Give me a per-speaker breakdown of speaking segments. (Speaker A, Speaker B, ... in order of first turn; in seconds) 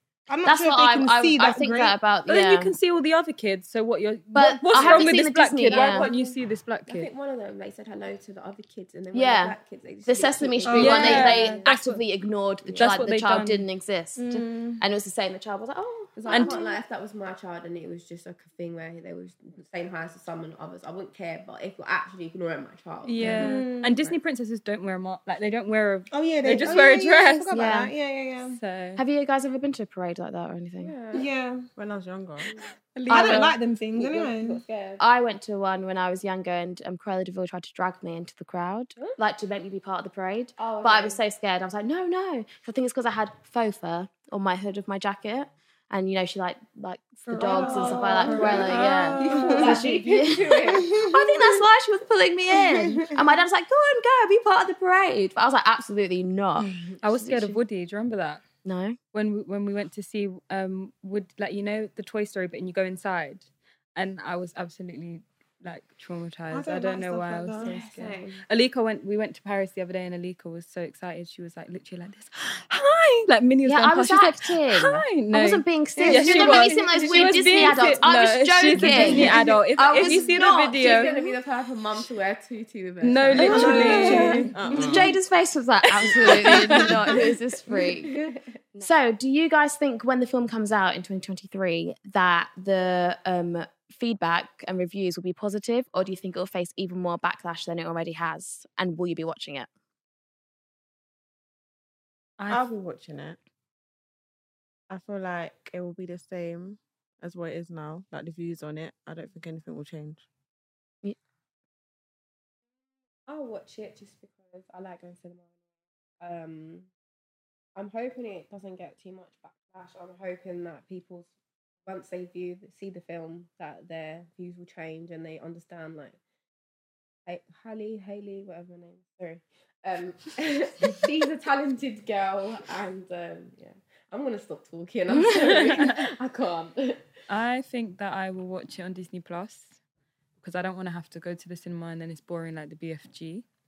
Speaker A: 0.3-2.0, 10.7-11.4, 14.2-14.8, 16.5-16.8, 23.2-24.1, 26.1-28.6, 31.1-31.7, 33.1-34.6, 47.3-49.9, 50.7-51.6, 52.5-53.4, 66.5-67.8, 76.0-77.8, 78.8-80.2, 83.4-85.1, 86.8-87.1
Speaker B: 0.5-2.7, 4.3-6.1, 9.1-16.6, 27.5-27.9, 29.0-30.9, 35.0-57.6, 58.6-59.0, 73.7-80.8, 83.4-88.2, 88.8-99.7
Speaker C: 2.3-7.1, 10.8-12.0, 12.8-13.7, 16.3-16.6, 23.1-27.5, 28.4-29.0, 33.0-33.6, 48.7-49.7, 57.0-58.4, 59.1-81.2, 83.0-84.6, 86.0-87.0, 102.4-102.7, 135.3-136.0, 137.3-139.8, 140.4-143.5
Speaker D: 4.8-5.1, 5.7-11.7, 12.6-13.1, 16.2-23.7, 26.6-26.8, 30.8-31.3, 32.5-35.0, 40.6-41.2, 47.4-51.1, 67.6-68.4, 80.7-84.3, 87.7-88.5, 113.3-115.5, 116.2-116.9, 117.8-121.3, 121.8-126.2, 127.3-137.1
Speaker E: 31.8-32.6, 84.5-85.1, 102.5-103.4, 104.9-110.2